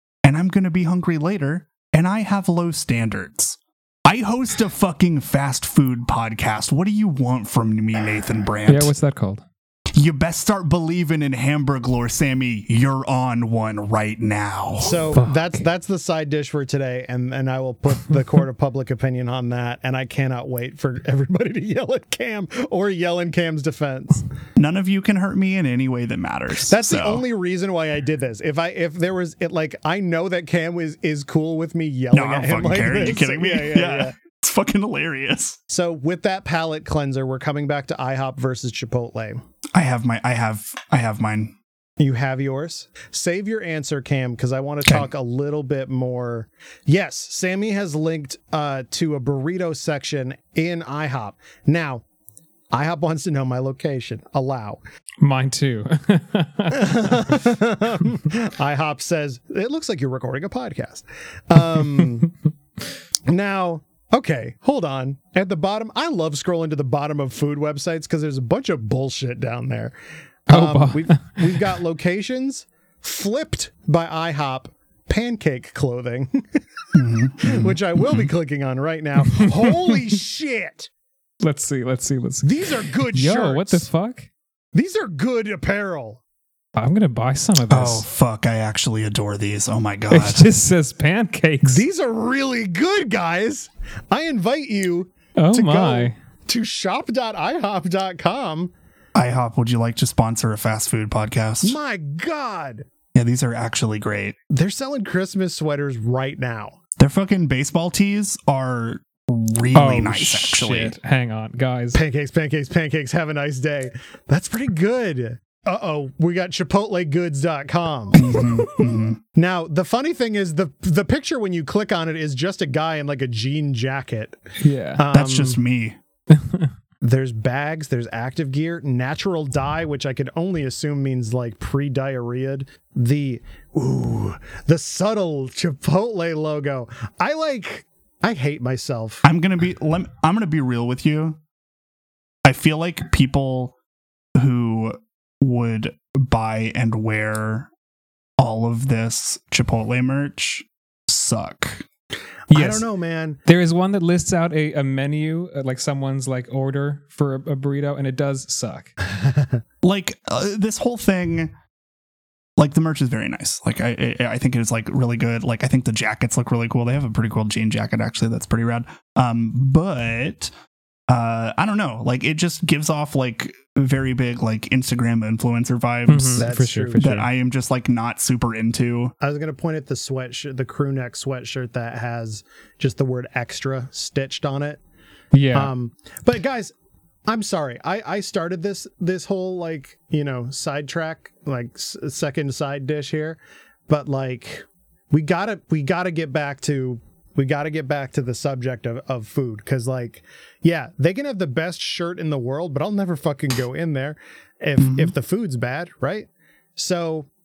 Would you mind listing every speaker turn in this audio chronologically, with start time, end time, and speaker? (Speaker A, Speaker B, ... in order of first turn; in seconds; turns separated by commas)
Speaker A: 0.2-8.9, Speaker B: 8.7-9.4, Speaker A: 9.9-15.1, Speaker C: 14.8-24.3, Speaker B: 15.1-15.5, Speaker A: 24.6-27.2, Speaker C: 26.6-34.1, Speaker A: 32.1-35.6, Speaker C: 35.7-39.4, Speaker A: 39.7-41.5, Speaker C: 42.0-52.0, Speaker C: 52.7-54.8, Speaker B: 55.2-57.1, Speaker C: 56.7-62.3, Speaker C: 63.3-69.9, Speaker C: 70.5-76.6, Speaker B: 70.5-71.7, Speaker A: 76.9-78.3, Speaker C: 77.4-80.9, Speaker B: 79.3-80.0, Speaker B: 81.4-84.3, Speaker C: 82.4-83.9, Speaker C: 84.7-86.2, Speaker B: 86.8-88.0, Speaker A: 87.7-90.5, Speaker B: 90.1-91.8, Speaker C: 91.6-98.7, Speaker B: 95.4-96.1, Speaker A: 99.1-101.8, Speaker C: 101.6-102.9, Speaker A: 103.1-104.4, Speaker C: 104.5-106.8, Speaker A: 107.0-111.0, Speaker B: 109.7-112.0, Speaker C: 111.9-124.4, Speaker A: 118.1-119.2, Speaker B: 124.6-125.0, Speaker C: 125.0-125.6, Speaker A: 125.1-126.0, Speaker B: 126.3-126.7, Speaker C: 127.0-139.2, Speaker A: 139.2-141.4, Speaker A: 142.4-143.7, Speaker A: 144.3-147.7, Speaker A: 148.4-151.9, Speaker C: 152.5-153.4, Speaker B: 152.5-152.9, Speaker B: 153.5-158.9, Speaker C: 159.1-159.6, Speaker A: 159.8-161.5, Speaker A: 162.6-170.5, Speaker A: 171.1-179.1, Speaker B: 176.1-177.2, Speaker C: 176.4-177.2, Speaker C: 179.2-184.8, Speaker B: 185.3-185.7, Speaker C: 185.5-186.7, Speaker C: 187.3-207.3, Speaker A: 204.8-205.1